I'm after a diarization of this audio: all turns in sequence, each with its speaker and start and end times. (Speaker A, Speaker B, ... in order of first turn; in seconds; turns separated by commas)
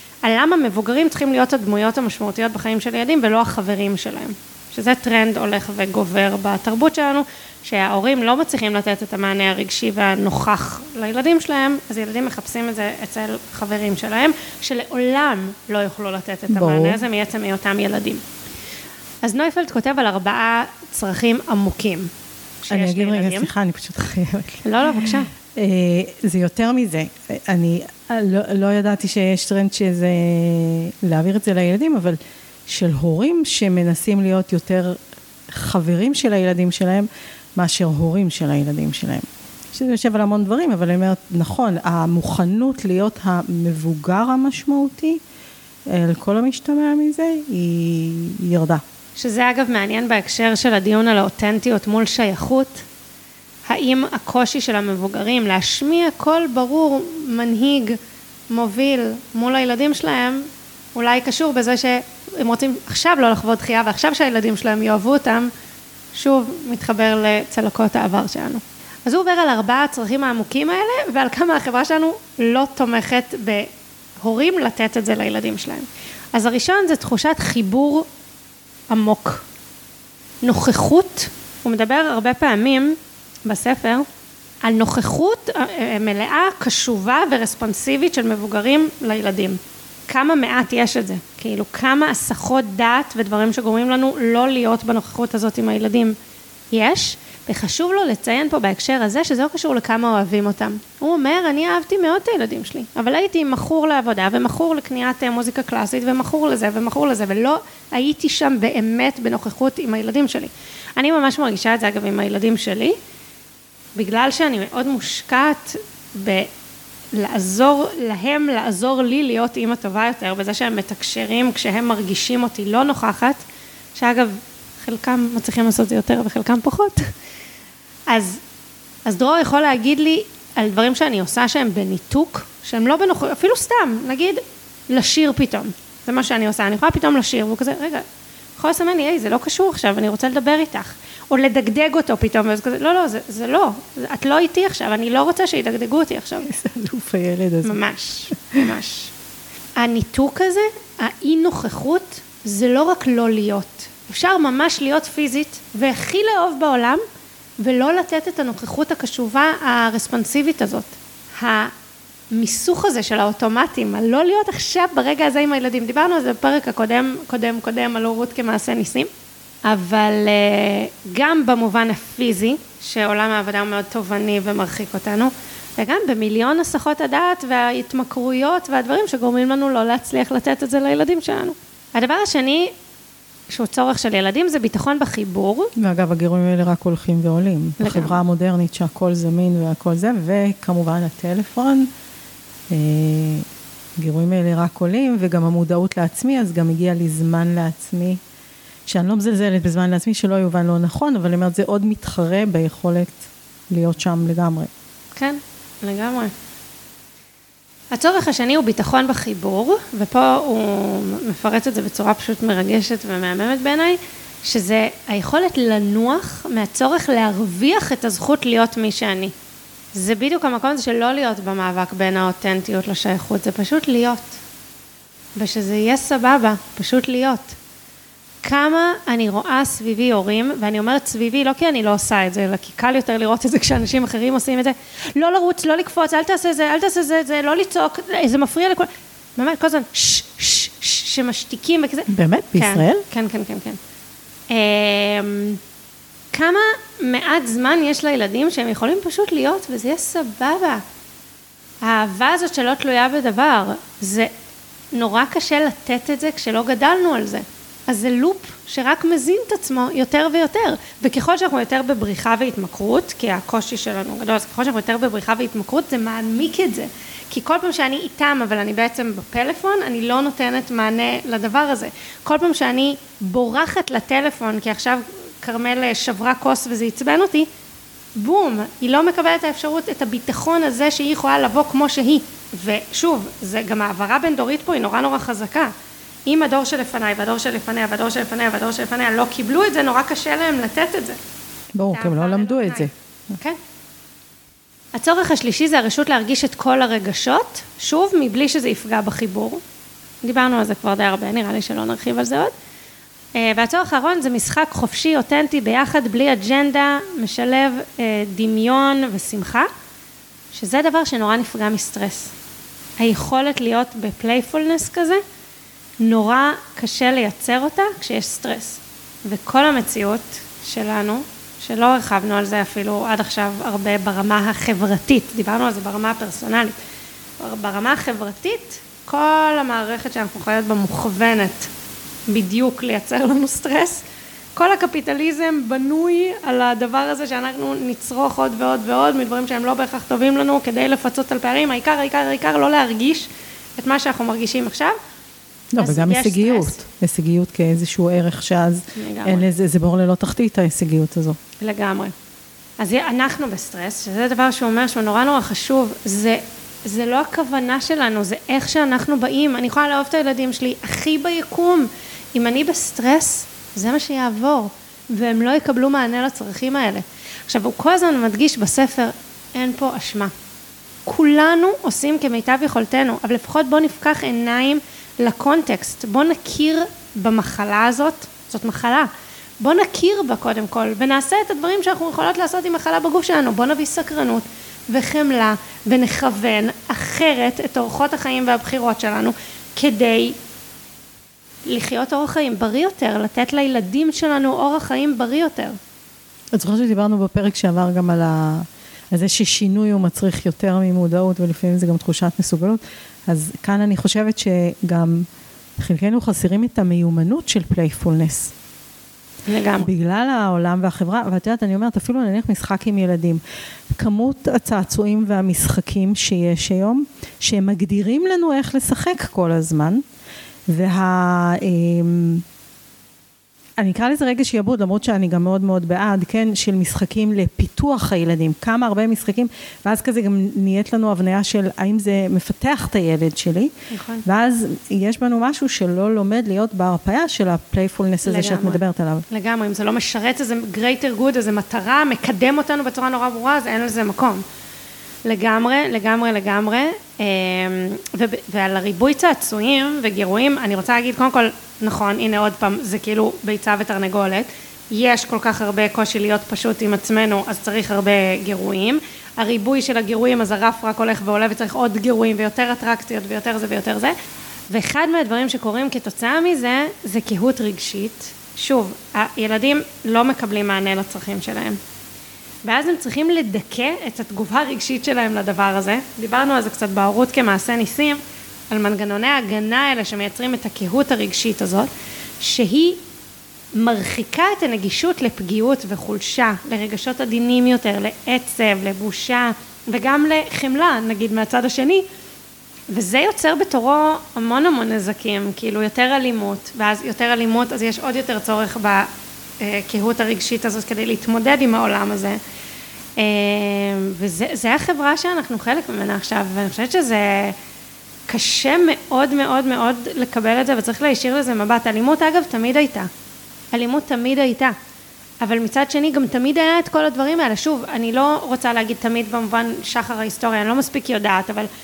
Speaker A: 0.2-18.2, Speaker B: 16.5-17.0, Speaker A: 19.2-22.1, Speaker A: 22.6-23.5, Speaker B: 22.7-45.2, Speaker A: 24.6-25.3, Speaker B: 45.9-48.8, Speaker A: 49.2-52.9, Speaker A: 53.7-58.0, Speaker A: 58.5-65.5, Speaker A: 66.1-73.7, Speaker A: 74.2-78.1, Speaker A: 78.9-79.5, Speaker A: 80.4-84.1, Speaker A: 84.6-96.2, Speaker A: 96.7-113.0, Speaker A: 114.0-116.5, Speaker A: 117.1-123.4, Speaker A: 124.0-127.1, Speaker A: 128.1-128.4, Speaker A: 129.0-138.0, Speaker A: 138.6-146.5, Speaker B: 146.5-147.8, Speaker A: 147.6-149.1, Speaker A: 149.8-157.0, Speaker A: 157.6-161.7, Speaker A: 162.3-169.1, Speaker A: 169.6-182.7, Speaker A: 183.5-185.7, Speaker B: 185.8-191.9, Speaker A: 187.8-188.2, Speaker B: 192.7-193.5, Speaker B: 194.0-198.2, Speaker B: 198.9-204.7, Speaker A: 205.1-206.3, Speaker A: 207.9-219.3, Speaker A: 219.9-224.4, Speaker A: 225.4-227.6, Speaker A: 228.4-243.8, Speaker B: 242.1-243.0, Speaker A: 244.5-245.6, Speaker A: 246.3-250.8, Speaker A: 251.8-254.3, Speaker A: 254.9-277.5, Speaker A: 278.1-285.7, Speaker A: 286.2-291.2, Speaker B: 291.7-292.9, Speaker A: 291.9-293.6, Speaker A: 294.9-299.6, Speaker A: 300.2-302.5, Speaker A: 303.4-309.7, Speaker A: 310.5-312.3, Speaker A: 313.0-315.2, Speaker A: 316.0-326.8, Speaker A: 327.4-331.7, Speaker A: 332.3-334.0, Speaker A: 334.6-344.9, Speaker B: 345.7-351.4, Speaker A: 345.8-346.8, Speaker A: 349.0-349.5, Speaker A: 351.6-352.1, Speaker A: 352.8-370.3, Speaker A: 371.1-379.1, Speaker A: 379.6-390.4, Speaker A: 391.7-395.8, Speaker B: 396.5-408.5, Speaker A: 409.5-409.9, Speaker B: 409.8-413.4, Speaker B: 413.9-420.0, Speaker B: 420.7-422.4, Speaker B: 423.8-433.7, Speaker A: 433.9-434.2, Speaker B: 434.2-439.2, Speaker A: 438.2-444.4, Speaker A: 445.2-464.1, Speaker A: 464.7-471.8, Speaker A: 472.6-478.2, Speaker A: 478.7-481.9, Speaker A: 482.4-483.0, Speaker A: 483.8-492.1, Speaker A: 492.9-499.1, Speaker A: 499.6-502.4, Speaker A: 503.2-507.6, Speaker A: 508.3-513.1, Speaker A: 513.7-514.8, Speaker A: 515.4-521.7